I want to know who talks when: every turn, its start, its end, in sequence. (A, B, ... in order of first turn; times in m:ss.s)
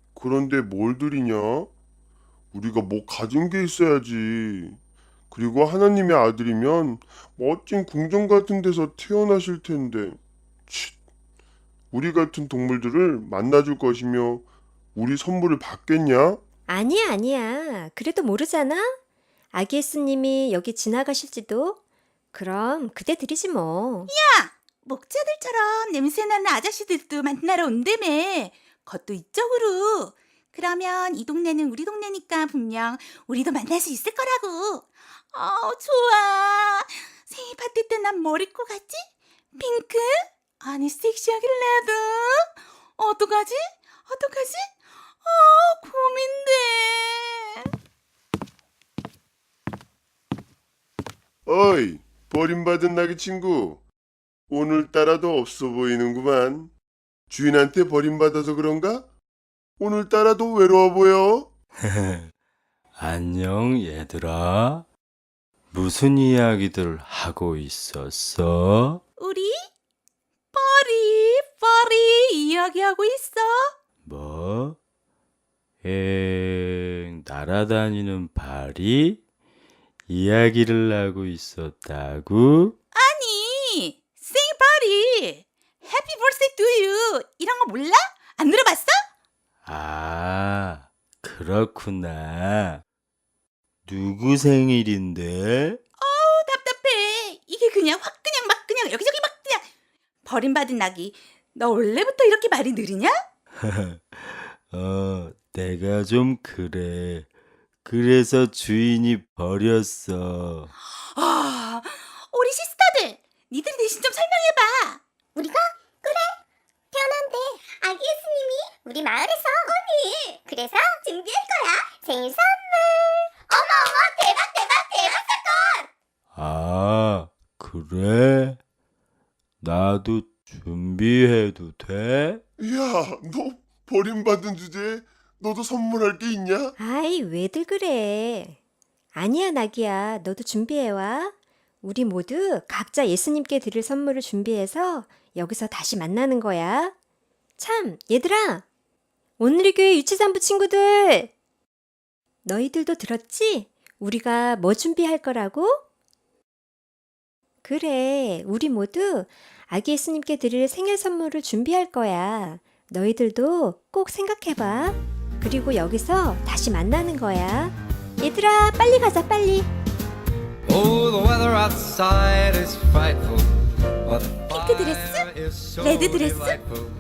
0:00.2-0:01.7 A
0:02.5-0:04.8 A
0:05.3-0:11.0 A
0:11.9-0:14.4 A
0:15.0-0:16.4 A
0:16.7-0:19.0 B
0:19.5-0:21.8 B
0:22.3-0:24.1 B
0:24.1-0:42.5 C
0:43.0-0:44.7 C
0:45.2-0:47.7 C
0:51.5-0:53.8 A
0:54.5-0:56.7 A
0:57.3-0:59.1 A
0:59.8-1:01.5 A
1:01.8-1:02.3 D
1:03.0-1:04.9 D
1:05.7-1:09.0 D
1:09.2-1:09.7 C
1:10.5-1:13.7 C
1:14.0-1:14.8 D
1:15.8-1:19.2 D
1:20.1-1:22.8 D
1:23.0-1:29.0 C
1:29.7-1:32.8 D
1:33.9-1:35.8 D
1:36.0-1:39.7 C
1:40.2-1:43.2 C
1:43.6-1:47.3 D
1:47.8-1:50.7 D
1:51.1-1:55.0 C
1:55.4-1:56.4 E
1:56.9-2:05.9 E
2:06.3-2:08.6 D
2:09.6-2:12.4 D
2:12.6-2:16.7 A
2:16.8-2:18.6 B
2:19.2-2:26.9 B
2:27.6-2:28.6 B
2:29.4-2:31.3 B
2:32.4-2:35.8 B
2:37.6-2:49.7 B
2:50.7-2:53.5 F
2:54.0-2:56.9 F
2:54.4-2:55.3 C
2:55.8-2:56.6 C